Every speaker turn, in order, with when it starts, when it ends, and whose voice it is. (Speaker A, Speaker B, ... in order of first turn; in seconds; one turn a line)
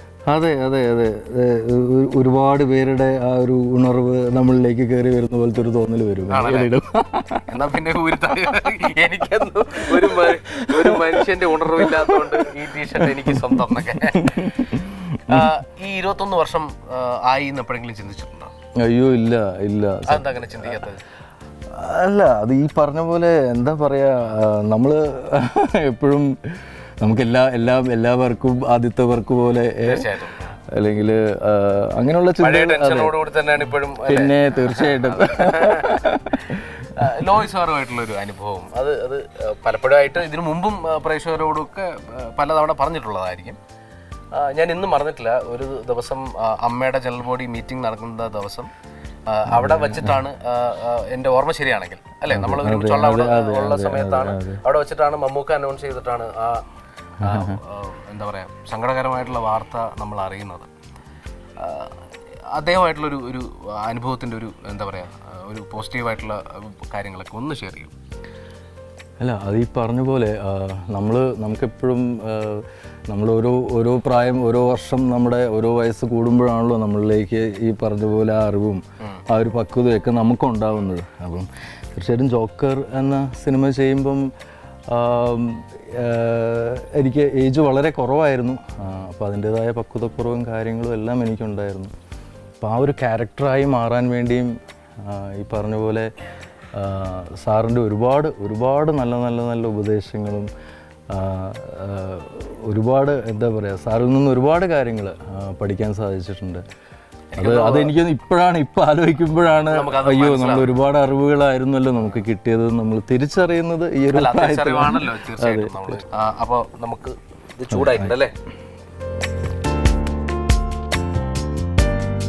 Speaker A: 0.3-7.5
Speaker B: 6.3-6.7
Speaker B: 7.5-14.6
Speaker A: 10.0-13.5
Speaker A: 14.1-15.5
Speaker B: 15.3-18.5
Speaker A: 18.8-20.8
Speaker B: 20.1-21.0
Speaker A: 21.7-30.1
Speaker B: 29.8-30.5
Speaker A: 30.7-33.3
Speaker B: 32.4-43.6
Speaker A: 34.0-36.6
Speaker B: 44.3-48.7
Speaker B: 49.3-56.6
Speaker A: 49.5-50.2
Speaker A: 52.3-54.6
Speaker A: 57.2-57.6
Speaker B: 57.2-60.7
Speaker B: 61.6-61.9
Speaker B: 62.5-67.9
Speaker A: 69.2-84.3
Speaker A: 84.9-91.9
Speaker A: 92.6-96.1
Speaker A: 96.7-100.5
Speaker A: 101.1-106.6
Speaker B: 107.3-108.0
Speaker A: 107.4-116.0
Speaker B: 109.7-110.7
Speaker B: 114.1-118.3
Speaker A: 117.7-118.1